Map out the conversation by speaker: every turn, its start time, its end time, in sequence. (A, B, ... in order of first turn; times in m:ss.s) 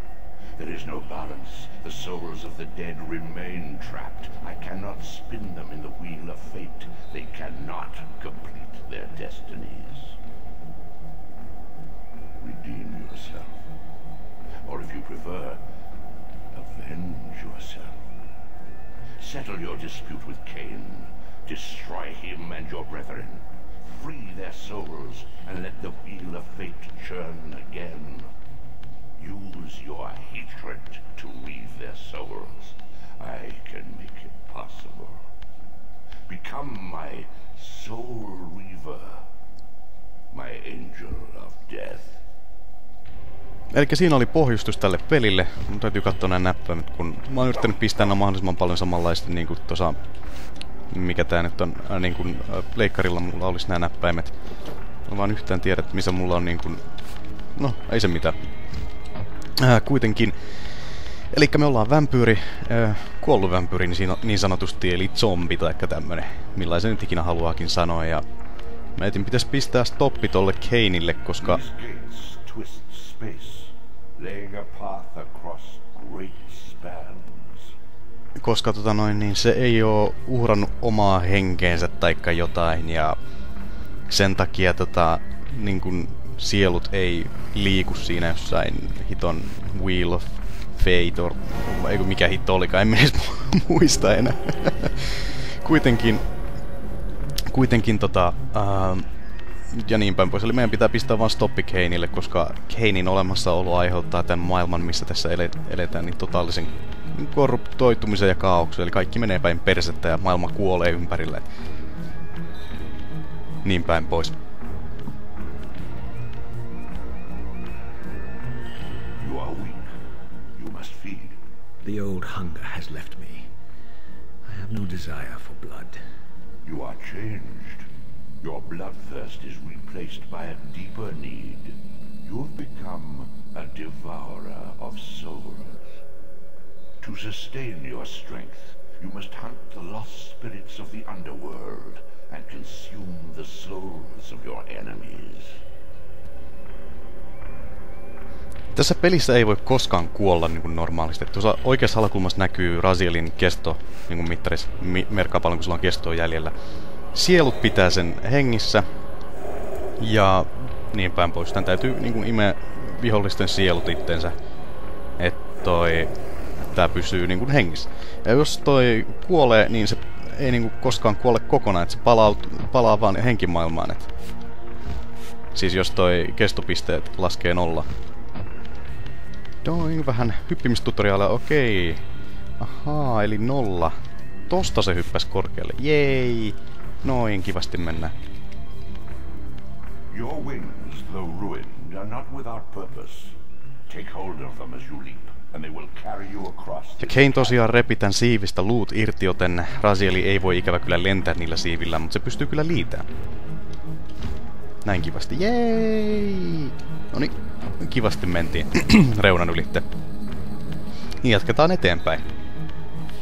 0:00.6-0:10.2 A
0:12.4-0:13.7 A
0:14.6-0:15.6 A
0:16.5-0:18.0 A
0:19.2-0:28.3 A
0:29.2-0:35.2 A
0:36.3-0:39.2 A
0:40.3-0:42.2 A
0:43.7-0:50.0 B
0:50.9-0:54.3 B
0:55.1-0:56.8 B
0:57.6-0:58.4 B
0:59.6-1:00.3 B
1:01.3-1:08.2 B
1:09.0-1:11.6 B
1:11.4-1:17.7 A
1:18.4-1:23.2 B
1:24.1-1:36.2 B
1:37.4-1:39.0 B
1:39.7-1:51.5 B
1:53.6-1:54.4 B
1:59.2-1:59.9 A
2:00.6-2:01.4 A
2:01.8-2:03.5 C
2:04.4-2:06.0 C
2:06.6-2:07.9 A
2:08.4-2:16.0 A
2:17.0-2:25.6 A
2:28.7-2:36.5 B
2:37.1-2:38.8 B
2:40.0-2:44.4 B
2:45.2-2:46.1 B
2:46.7-2:54.1 B
2:55.5-2:57.9 B
2:59.6-3:02.0 B
3:02.6-3:03.9 B
3:04.5-3:08.1 B
3:10.1-3:13.4 A
3:13.9-3:17.6 A
3:17.0-3:23.0 B
3:24.8-3:29.8 B
3:31.2-3:32.2 B